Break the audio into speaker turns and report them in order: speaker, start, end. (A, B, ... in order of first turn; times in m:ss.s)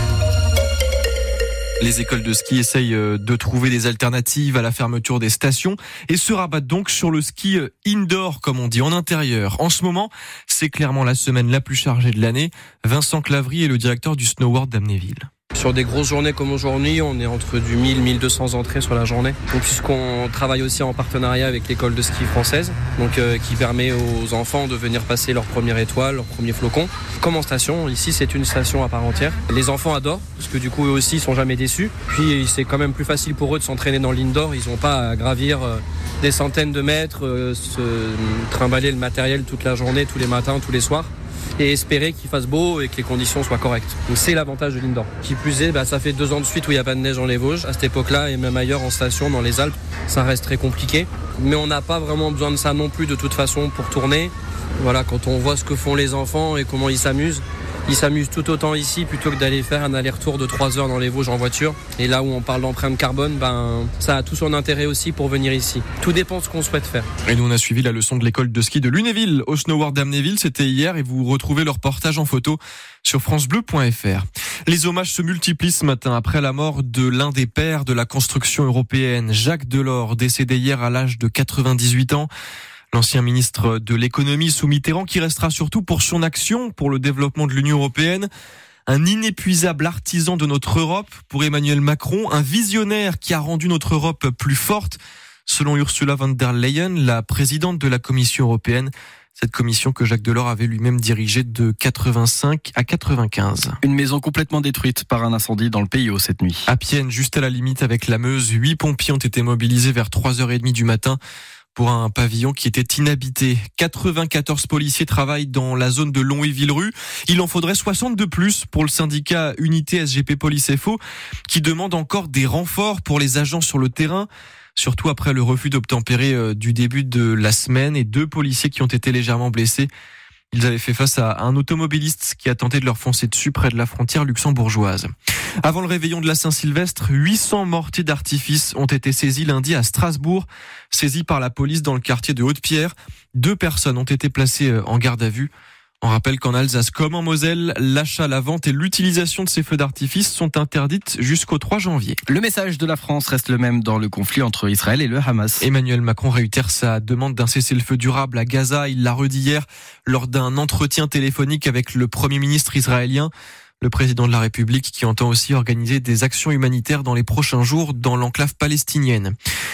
0:01.8-0:15.3 A
0:15.5-1:07.1 B
1:07.2-1:22.3 A
1:22.9-1:28.3 A
1:28.9-1:43.8 A
1:43.8-1:46.7 C
1:46.7-1:51.2 A
1:51.7-2:09.9 A
2:10.5-2:15.1 A
2:15.6-2:25.5 A
2:26.0-2:32.2 A
2:32.3-2:35.6 C
2:35.6-2:49.3 A